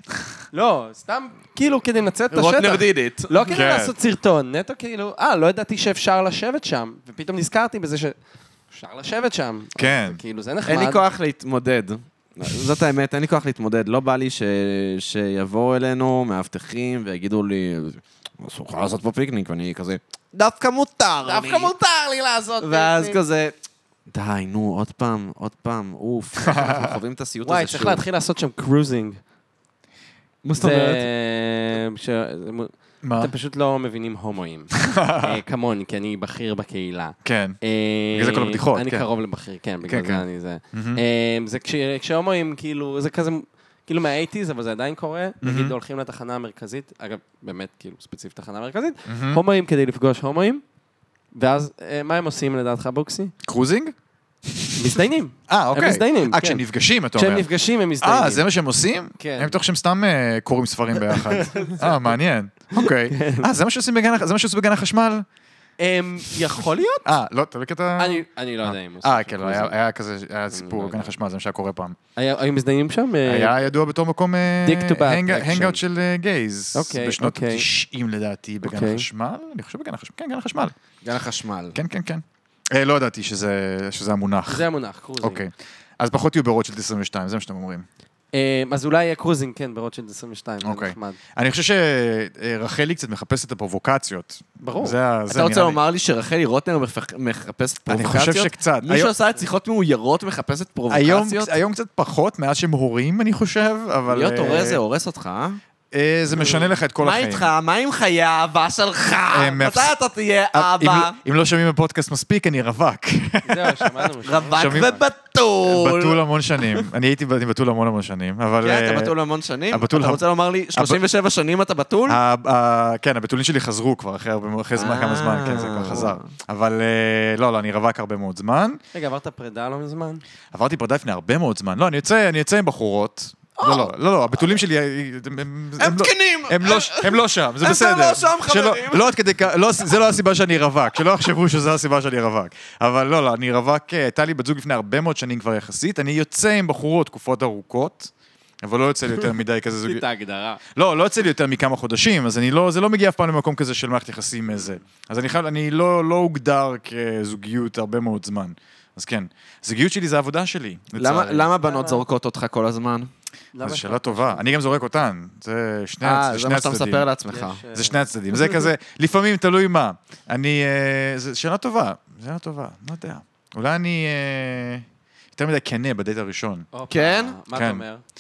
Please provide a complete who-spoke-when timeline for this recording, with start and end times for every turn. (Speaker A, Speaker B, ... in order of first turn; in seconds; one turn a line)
Speaker A: 0.5-8.1
Speaker B: 2.3-3.3
Speaker C: 3.5-3.9
Speaker A: 8.7-11.0
Speaker C: 9.8-10.2
Speaker B: 10.7-21.7
Speaker A: 21.2-23.2
Speaker B: 22.6-23.5
Speaker B: 24.1-28.0
Speaker C: 26.4-27.0
Speaker A: 27.4-29.2
Speaker B: 30.4-31.0
Speaker A: 30.6-50.6
Speaker C: 33.0-33.3
Speaker C: 34.8-35.4
Speaker C: 37.2-37.6
Speaker C: 38.1-39.1
Speaker C: 39.8-41.0
Speaker C: 45.4-45.8
Speaker C: 49.1-49.4
Speaker A: 51.3-53.3
Speaker C: 53.4-53.9
Speaker C: 54.5-57.5
Speaker A: 54.8-56.6
Speaker A: 57.1-58.4
Speaker C: 58.0-65.2
Speaker A: 59.2-59.6
Speaker A: 61.1-62.1
Speaker A: 62.7-63.5
Speaker A: 65.8-67.0
Speaker C: 67.0-72.0
Speaker A: 68.0-69.8
Speaker A: 70.5-71.1
Speaker A: 72.2-73.6
Speaker C: 73.2-80.7
Speaker A: 74.6-75.8
Speaker A: 76.7-77.7
Speaker A: 78.6-79.0
Speaker B: 81.0-81.8
Speaker C: 81.7-84.6
Speaker A: 84.5-85.4
Speaker C: 85.2-87.8
Speaker A: 88.3-91.2
Speaker C: 90.6-95.8
Speaker A: 94.6-95.0
Speaker B: 95.3-101.5
Speaker C: 97.9-99.1
Speaker C: 100.9-104.8
Speaker B: 104.1-105.6
Speaker C: 105.9-107.5
Speaker B: 106.3-111.2
Speaker C: 109.3-109.9
Speaker C: 110.5-115.0
Speaker A: 113.4-115.0
Speaker B: 114.2-116.9
Speaker C: 115.7-119.1
Speaker B: 118.6-122.2
Speaker C: 119.7-121.0
Speaker C: 122.1-128.8
Speaker B: 124.8-126.3
Speaker A: 128.9-130.2
Speaker C: 130.5-150.0
Speaker A: 133.6-133.9
Speaker B: 135.8-139.1
Speaker A: 149.8-150.6
Speaker C: 150.7-161.5
Speaker B: 161.0-163.1
Speaker A: 161.6-162.0
Speaker A: 163.5-164.5
Speaker C: 163.6-167.1
Speaker B: 166.0-167.6
Speaker A: 167.3-168.0
Speaker C: 167.7-176.7
Speaker A: 176.7-178.0
Speaker B: 176.9-177.4
Speaker C: 177.5-177.8